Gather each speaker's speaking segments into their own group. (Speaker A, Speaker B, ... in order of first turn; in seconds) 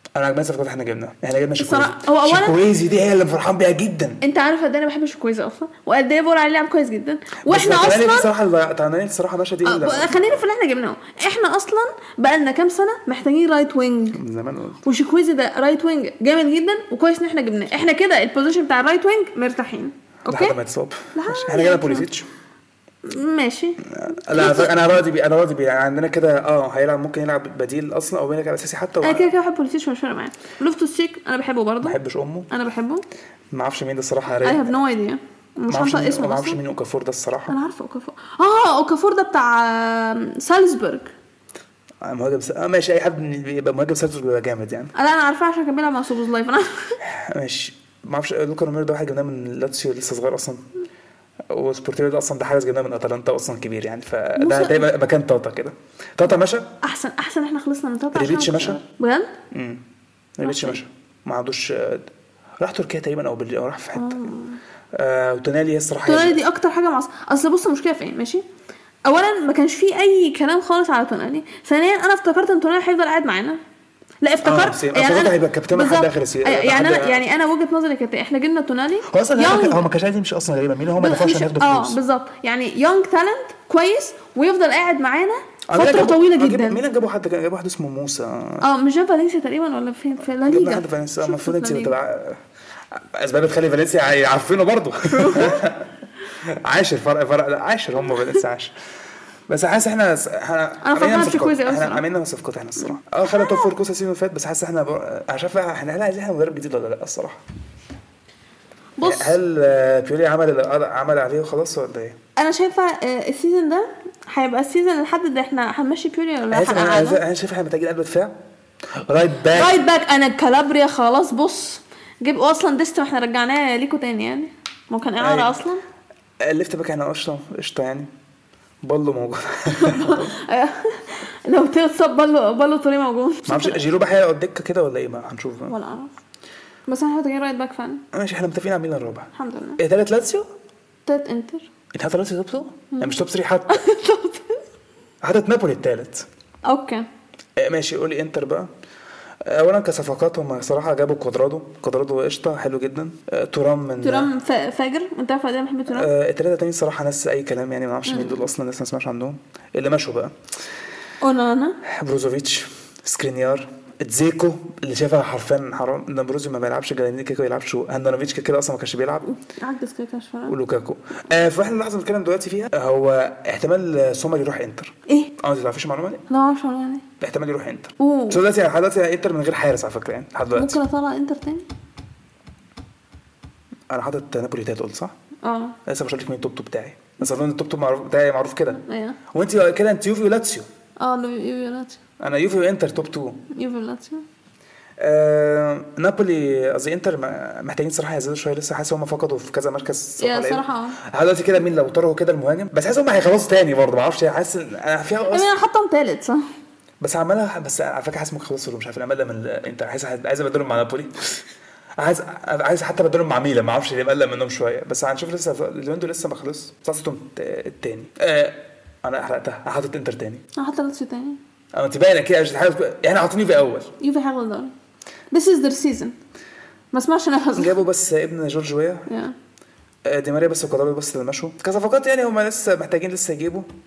Speaker A: 0.2-4.2, 7.5-10.4, 14.1-14.8, 20.3-22.3, 23.9-29.3, 31.8-32.5, 33.5-34.8, 35.7-37.6, 42.0-44.9, 47.0-50.6, 51.5-56.8, 58.1-58.8, 59.5-59.8, 60.4-62.1, 62.6-64.3, 64.9-66.4, 74.4-77.2, 79.1-82.0, 85.7-88.7, 90.4-92.4, 93.0-98.7, 99.5-107.4, 109.0-112.2, 116.5-118.3, 119.0-119.8, 125.2-125.6, 126.4-128.1, 128.8-130.3, 133.5-135.8, 138.1-140.5, 141.9-143.8, 145.2-146.3, 147.6-148.7, 149.4-154.3, 155.9-160.3, 161.8-169.3, 170.5-176.2, 177.2-180.8, 183.9-185.1, 185.9-190.7, 192.2-193.4, 195.0-205.5, 207.0-211.3, 212.0-220.4, 221.7-223.9, 227.6-229.1, 230.1-233.7
Speaker B: 1.6-2.6, 4.2-8.3, 9.6-14.2, 14.8-20.6, 21.1-22.1, 23.1-24.7, 29.0-32.0, 32.5-33.0, 34.4-36.6, 37.5-41.1, 45.0-47.0, 54.4-54.9, 56.8-59.3, 60.4-60.8, 64.0-64.6, 66.0-68.4, 69.1-73.6, 74.2-79.9, 81.0-86.8, 88.6-92.0, 95.1-95.7, 100.8-102.0, 103.3-103.7, 109.0-109.4, 112.4-117.2, 119.5-125.8, 129.8-133.8, 135.7-136.2, 136.9-138.0, 139.3-139.8, 141.1-141.7, 143.7-144.6, 146.7-147.1, 154.0-156.1, 158.1-158.4, 161.2-161.8, 169.3-170.6, 176.3-177.1, 178.0-178.4, 180.6-181.6, 185.4-185.8, 188.8-189.2, 191.0-192.0, 193.5-194.2, 200.2-201.0, 205.3-206.4, 220.6-221.4, 224.0-224.7, 225.3-226.1, 226.9-227.8, 229.1-229.3